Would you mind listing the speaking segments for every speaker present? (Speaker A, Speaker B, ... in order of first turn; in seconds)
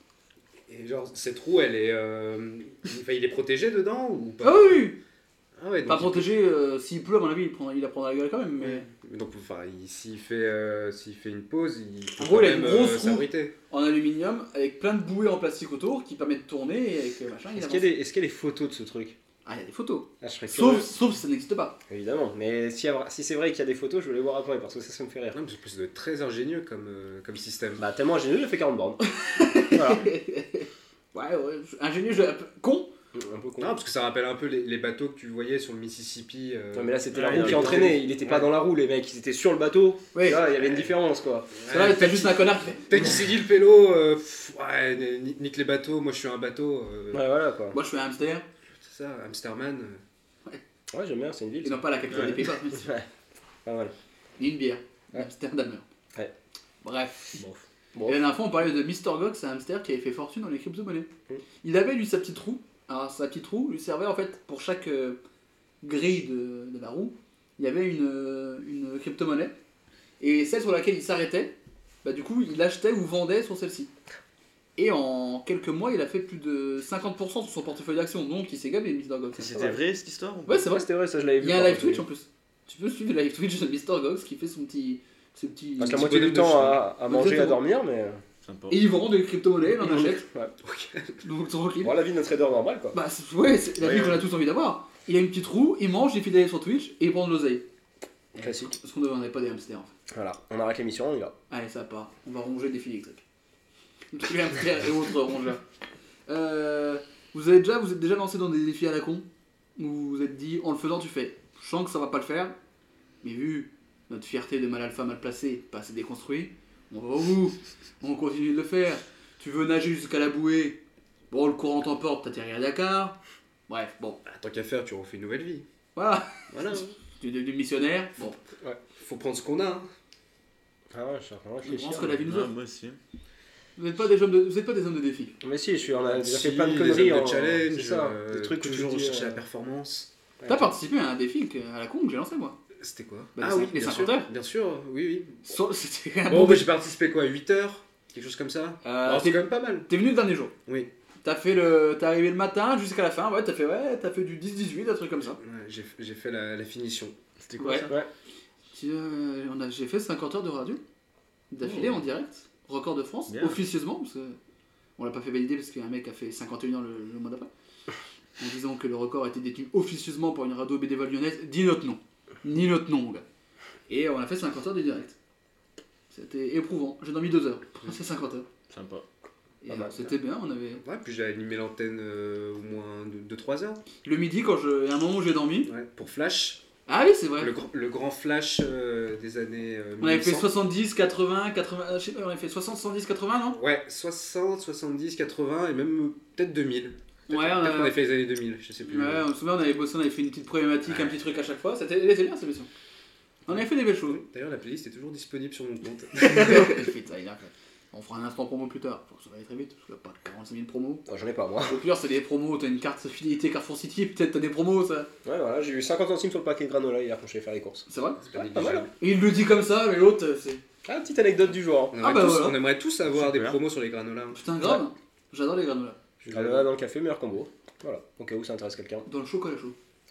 Speaker A: 0.7-4.8, 5.6-6.3, 8.6-13.5, 25.3-27.8, 33.6-38.5, 41.5-47.2, 48.8-50.0, 85.9-86.8, 90.6-91.2, 124.2-125.7, 126.5-126.9, 129.0-129.9, 136.0-140.1, 142.8-145.5, 146.3-149.9, 155.4-157.1, 180.8-183.8, 185.7-186.6, 187.4-190.5, 193.5-199.2, 203.5-206.8, 218.2-218.9, 221.9-224.4, 226.2-226.7
Speaker B: 4.4-5.0, 5.8-8.8, 12.2-17.9, 19.4-21.8, 29.0-32.9, 40.1-40.5, 41.7-43.1, 47.7-48.5, 51.6-52.9, 54.4-55.9, 56.8-57.4, 58.0-61.1, 61.6-65.2, 65.8-69.5, 70.2-73.9, 74.8-79.7, 80.5-80.8, 81.4-86.4, 87.0-87.6, 88.7-90.2, 91.2-92.0, 92.9-97.6, 98.3-99.9, 101.5-103.2, 104.1-105.6, 106.3-109.2, 109.8-112.5, 113.2-123.2, 123.7-124.2, 126.0-126.4, 127.2-128.4, 131.6-132.5, 133.8-135.3, 140.4-142.6, 143.4-144.3, 145.4-146.7, 148.8-150.5, 151.2-155.4, 157.6-157.9, 158.7-160.8, 161.5-164.4, 165.0-167.5, 168.4-173.2, 173.9-175.1, 176.1-178.4, 179.6-180.8, 184.0-185.7, 186.9-187.5, 190.0-193.6, 197.3-197.9, 198.8-202.7, 203.4-204.2, 206.2-211.1, 211.6-215.1, 217.9-218.2, 219.0-220.6, 222.0-222.6, 224.3-226.0, 229.1-229.8
Speaker C: 17.5-19.1, 20.2-20.9, 21.9-25.4, 27.8-29.0, 29.7-30.1, 33.1-33.8, 36.7-41.5, 47.1-47.8, 50.9-53.0, 53.6-53.9, 57.4-58.2, 80.6-82.0, 85.8-88.2, 89.8-90.5, 91.8-93.0, 98.3-98.7, 100.1-101.3, 130.9-132.2, 135.4-139.4, 140.4-140.7, 179.7-180.1, 211.1-211.8, 215.2-218.9, 220.8-222.0, 226.3-229.1
Speaker D: 37.1-38.0, 79.3-80.7, 88.4-88.8, 93.8-94.2, 132.2-133.0, 157.4-158.0, 163.3-163.6, 178.7-179.0, 223.1-223.6